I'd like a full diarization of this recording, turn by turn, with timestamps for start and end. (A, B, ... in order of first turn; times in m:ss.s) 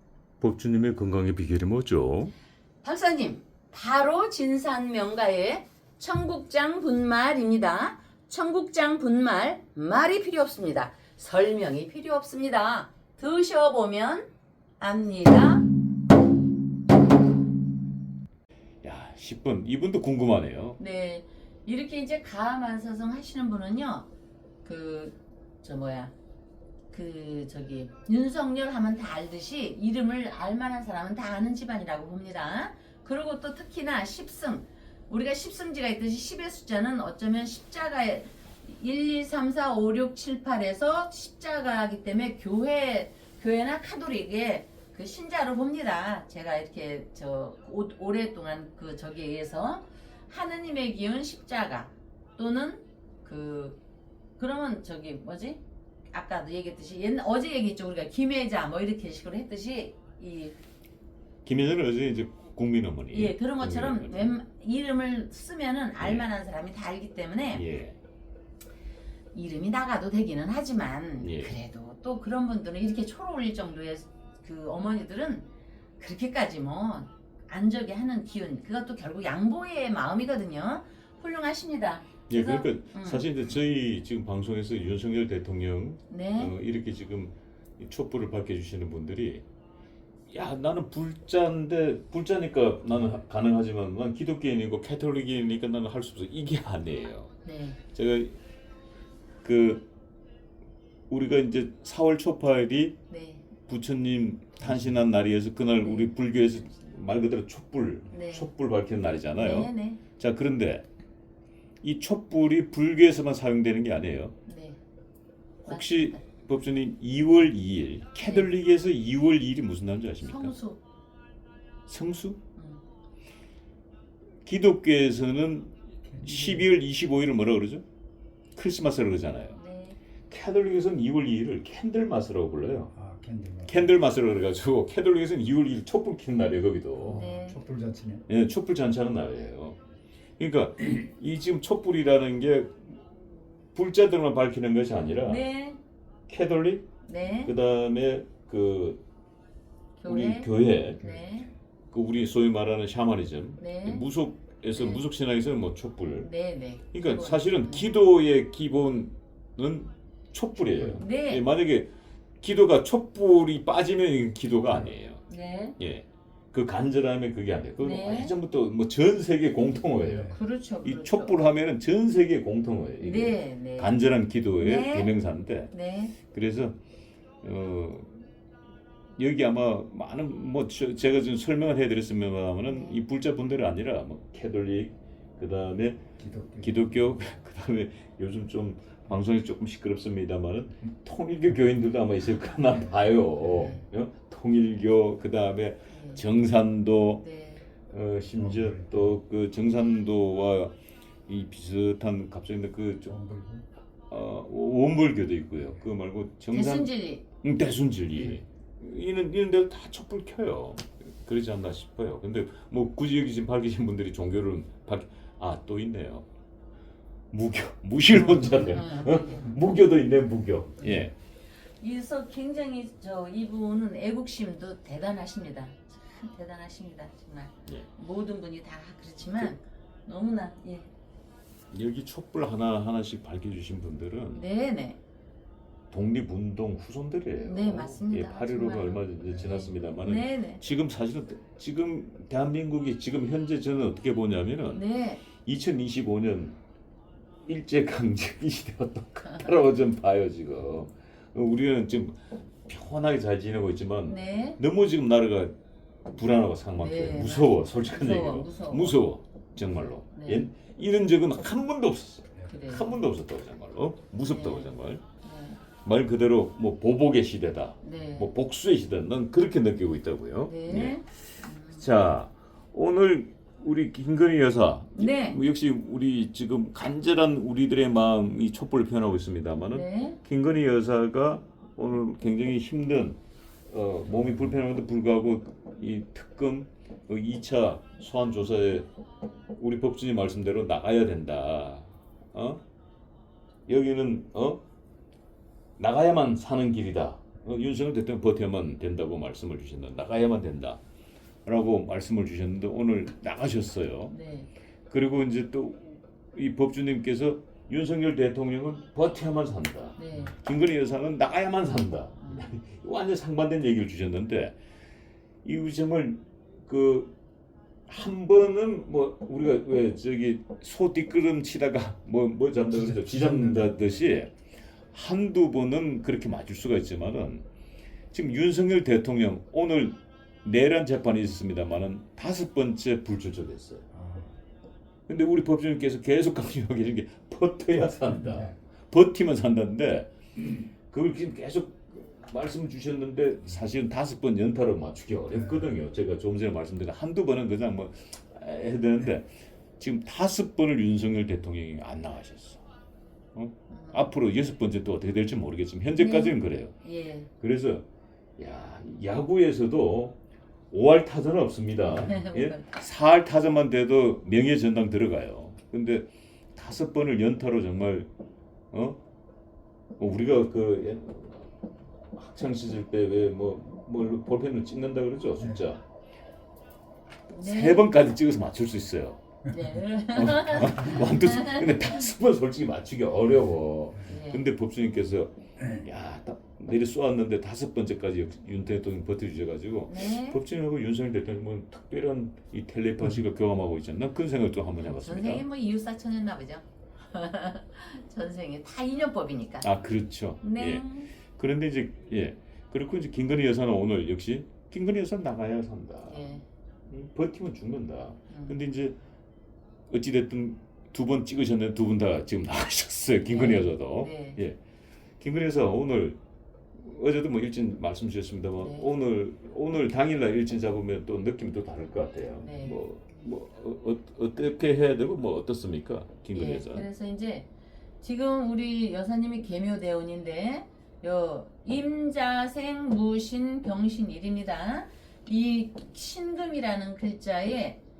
0:00.4-0:02.3 A
0:02.8-0:14.3 B
0:14.8-0:15.6 B
0:18.8-0:20.8 A
0:20.8-0:24.1 B
0:24.6-0:26.1 B
0:26.9-0:53.8 B
0:54.4-1:00.6 B
1:01.4-1:04.4 A
1:03.1-1:07.6 B
1:06.0-1:06.3 A
1:07.5-1:08.0 A
1:09.3-1:15.4 B
1:11.2-1:11.5 A
1:16.0-1:23.2 B
1:22.3-1:29.4 A
1:26.1-1:26.5 B
1:30.3-1:37.3 A
1:37.4-1:37.8 B
1:37.9-1:38.3 A
1:39.4-1:39.9 A
1:41.1-1:43.0 A
1:43.1-1:43.4 B
1:43.7-1:50.8 A
1:45.8-1:46.1 B
1:48.1-1:48.5 B
1:49.3-1:50.0 B
1:51.8-1:54.3 A
1:54.4-1:54.8 B
1:55.6-2:00.6 A
1:55.7-1:56.2 B
1:58.2-1:58.5 B
2:00.2-2:00.8 B
2:01.9-2:02.4 A
2:02.6-2:02.8 B
2:04.4-2:07.8 A
2:06.1-2:06.6 C
2:08.5-2:09.6 A
2:09.5-2:10.0 B
2:10.3-2:12.9 A
2:12.9-2:13.8 C
2:13.7-2:17.4 A
2:17.0-2:17.6 B
2:17.1-2:18.2 C
2:18.3-2:19.8 A
2:20.4-2:25.4 A
2:25.2-2:25.8 B
2:26.3-2:26.9 A
2:27.0-2:27.5 B
2:27.4-2:29.0 A
2:30.0-2:31.5 B
2:30.0-2:31.0 A
2:31.1-2:31.4 C
2:31.9-2:36.3 A
2:33.6-2:34.0 B
2:34.7-2:35.0 B
2:36.2-2:37.9 B
2:36.9-2:45.2 A
2:41.0-2:41.4 B
2:45.3-2:45.8 B
2:45.8-2:56.8 A
2:47.8-2:48.4 B
2:50.3-2:51.4 B
2:53.0-2:53.9 B
2:54.6-2:55.1 B
2:55.7-2:56.1 B
2:57.4-2:58.2 A
2:59.2-3:17.2 A
3:02.7-3:03.0 B
3:06.2-3:07.2 C
3:12.7-3:13.0 C
3:13.5-3:13.8 B
3:15.9-3:16.2 B
3:17.2-3:17.7 B
3:17.9-3:20.7 A
3:18.4-3:19.0 C
3:21.3-3:23.2 A
3:23.1-3:23.6 C
3:24.1-3:36.2 A
3:26.5-3:27.2 B
3:37.3-3:41.1 A
3:38.7-3:39.5 B
3:41.8-3:50.9 B
3:51.7-3:54.4 A
3:54.3-3:55.0 B
3:55.9-4:04.8 A
3:57.4-4:00.6 B
4:04.7-4:05.2 B
4:05.4-4:06.6 A
4:07.4-4:25.0 A
4:14.1-4:14.6 B
4:16.8-4:19.0 B
4:19.7-4:20.4 B
4:22.5-4:23.0 B
4:24.3-4:25.6 B
4:25.8-4:31.0 A
4:27.8-4:28.3 B
4:30.4-4:31.8 B
4:31.7-4:48.9 A
4:35.0-4:35.4 B
4:39.7-4:40.2 B
4:49.6-4:52.6 A
4:53.7-4:54.6 A
4:55.8-5:00.8 A
5:01.4-5:04.1 A
5:04.1-5:04.5 B
5:04.9-5:14.6 A
5:10.0-5:10.3 B
5:12.2-5:12.5 B
5:15.4-5:17.1 A
5:17.9-5:24.3 A
5:22.8-5:23.8 C
5:24.9-5:27.4 A
5:28.1-5:33.8 A
5:33.9-5:34.3 C
5:35.1-5:52.6 A
5:38.3-5:38.5 C
5:53.3-5:56.7 A
5:53.7-5:54.1 B
5:56.0-5:57.3 B
5:57.4-5:57.8 A
5:58.4-6:00.2 A
6:00.7-6:08.1 A
6:02.0-6:02.7 B
6:08.7-6:09.0 A
6:10.0-6:11.6 A
6:12.1-6:15.8 A
6:17.3-6:19.2 A
6:17.4-6:17.8 B
6:19.5-6:22.0 B
6:20.1-6:35.4 A
6:24.1-6:24.4 B
6:25.6-6:25.8 C
6:29.9-6:30.4 B
6:34.8-6:39.7 B
6:39.6-6:46.3 A
6:40.4-6:41.2 B
6:46.1-6:46.4 B
6:46.9-6:49.0 A
6:48.3-6:48.6 B
6:49.9-6:54.6 A
6:53.3-6:54.4 B
6:55.2-6:56.2 A
6:56.7-7:06.8 A
6:58.6-6:58.9 B
7:02.4-7:02.8 B
7:06.3-7:07.5 B
7:08.0-7:17.8 B